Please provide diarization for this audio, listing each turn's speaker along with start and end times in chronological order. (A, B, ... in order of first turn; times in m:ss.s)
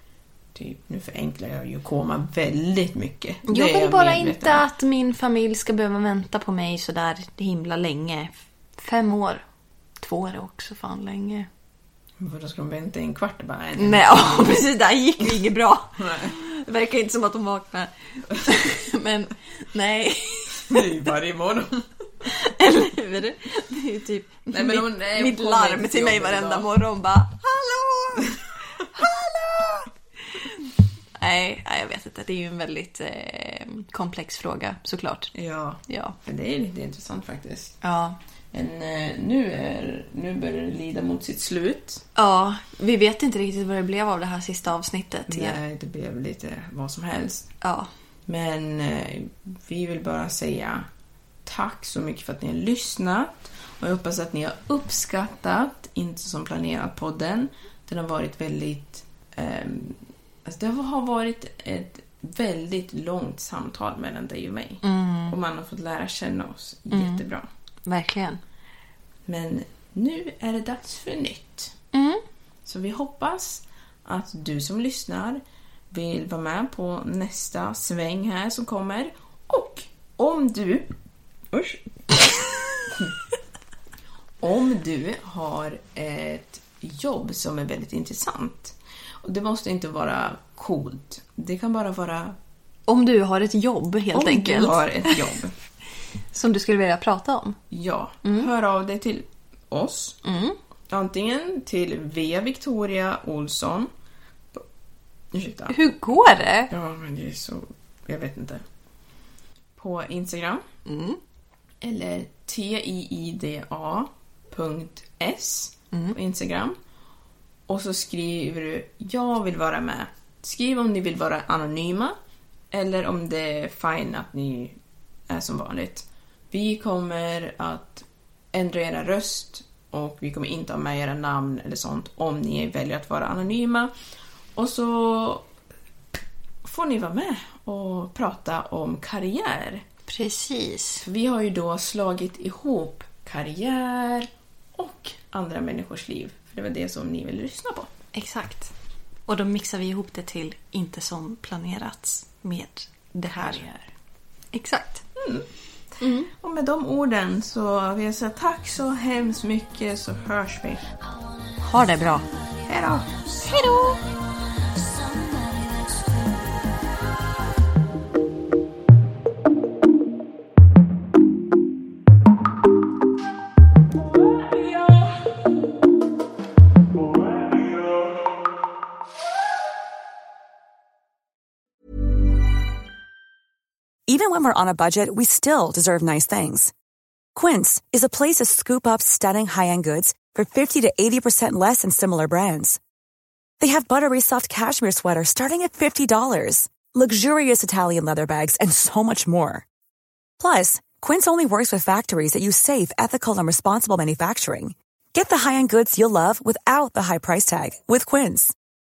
0:00.5-0:04.7 A
0:03.4-0:09.4 B
0:10.0-0:11.5 B
0:12.2-0:14.6 A
0:13.8-0:20.8 B
0:16.0-0:16.3 A
0:20.6-0:21.9 A
0:22.2-0:30.5 B
0:24.5-0:26.7 A
0:31.2-0:35.3 B
0:35.3-0:37.8 A
0:35.9-0:36.2 B
0:37.8-0:38.2 B
0:38.5-0:42.0 A
0:42.2-0:45.6 B
0:45.3-0:47.5 A
0:47.6-0:47.9 B
0:48.3-0:50.9 A
0:51.4-1:07.5 A
1:04.8-1:05.4 B
1:06.9-1:07.2 B
1:07.8-1:08.4 B
1:09.2-1:11.7 A
1:11.9-1:12.2 B
1:12.6-1:20.9 A
1:21.5-1:23.1 A
1:24.4-1:32.4 A
1:32.9-1:35.2 B
1:34.1-1:35.5 A
1:36.3-1:37.6 B
1:37.7-1:40.2 A
1:38.2-1:38.5 B
1:40.2-1:40.6 B
1:40.9-1:43.9 A
1:45.3-1:45.8 A
1:45.7-1:46.7 B
1:46.7-1:48.6 A
1:49.8-1:50.6 A
1:50.8-1:51.2 B
1:51.8-1:56.8 A
1:57.7-2:02.2 A
2:02.7-2:04.8 A
2:05.3-2:13.9 A
2:14.5-2:15.5 A
2:16.2-2:19.8 A
2:20.1-2:21.0 B
2:21.0-2:27.9 A
2:28.1-2:28.7 B
2:29.3-2:33.8 B
2:33.3-2:33.7 A
2:34.5-2:35.0 B
2:35.2-2:35.5 A
2:36.0-2:36.3 B
2:36.3-2:40.8 A
2:41.6-2:42.2 B
2:42.6-2:43.3 A
2:43.4-2:44.0 B
3:04.1-3:06.7 C
3:07.3-3:12.8 C
3:13.6-3:19.6 C
3:20.4-3:28.5 C